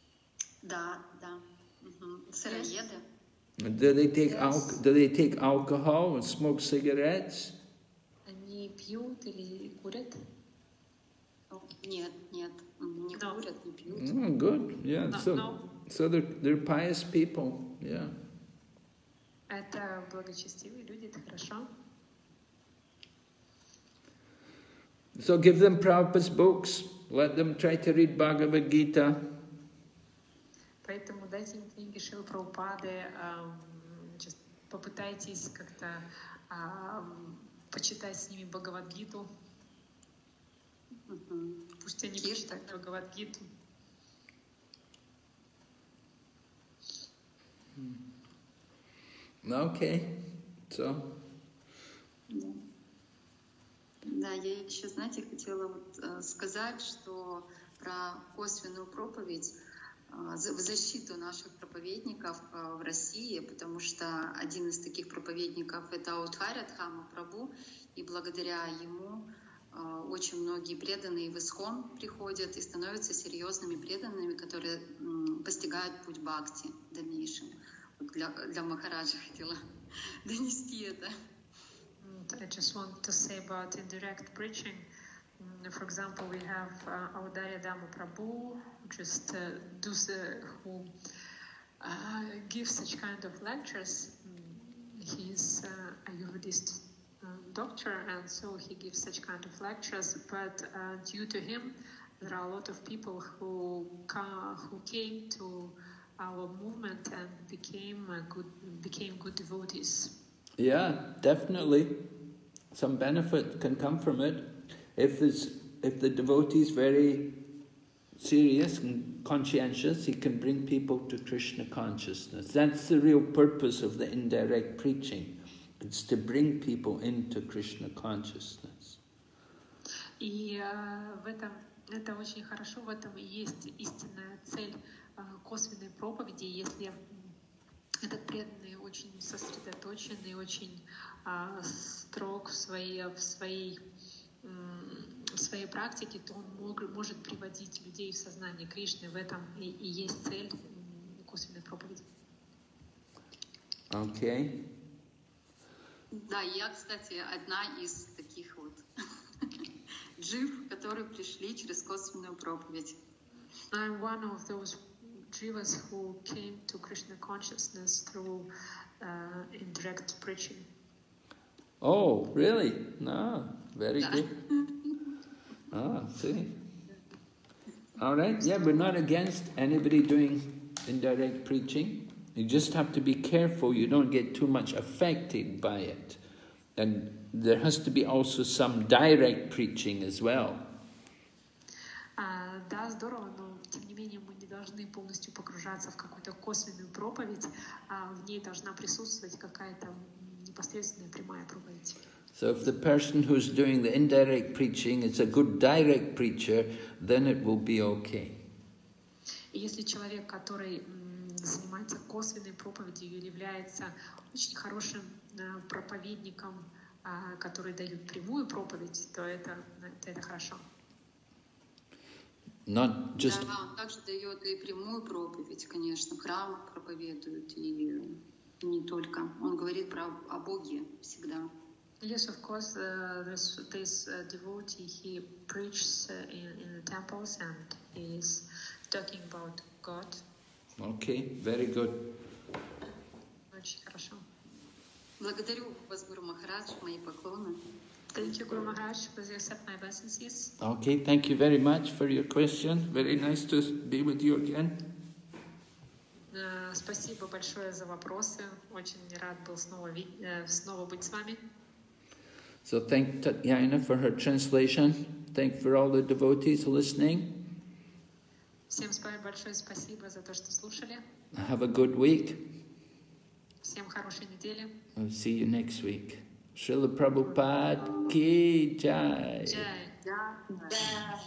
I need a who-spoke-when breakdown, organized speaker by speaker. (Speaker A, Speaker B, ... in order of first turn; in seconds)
Speaker A: 0.6-3.0, 11.5-14.2, 41.1-41.6, 42.2-42.5, 52.3-52.6, 54.0-59.6, 60.1-69.2, 69.7-79.6, 80.2-81.1, 156.2-158.8, 160.2-163.0, 174.0-175.0, 223.2-231.5, 245.2-247.6, 280.1-281.1
Speaker B: 2.5-2.8, 4.3-4.7, 8.3-10.2, 13.1-13.4, 15.1-15.6, 19.5-21.7, 30.8-39.3, 41.8-43.5, 82.0-84.9, 85.4-90.9, 91.8-110.1, 130.2-137.3, 138.0-143.8, 144.4-152.1, 163.7-170.7, 192.2-202.0, 209.5-220.7, 232.0-240.2, 243.5-244.2, 248.1-250.5, 256.3-261.5, 268.7-271.0, 273.6-274.7, 279.4-279.9
Speaker C: 3.6-7.6, 13.9-18.2, 25.2-29.3, 47.8-48.0, 49.4-50.2, 50.7-51.1, 110.6-112.0, 112.7-117.4, 118.2-129.0, 153.9-154.6, 171.8-174.3, 175.7-176.6, 178.0-186.2, 186.8-190.7, 202.3-208.4, 222.7-223.5, 240.8-242.1, 250.6-254.8, 262.6-267.3, 271.3-272.4, 274.9-279.7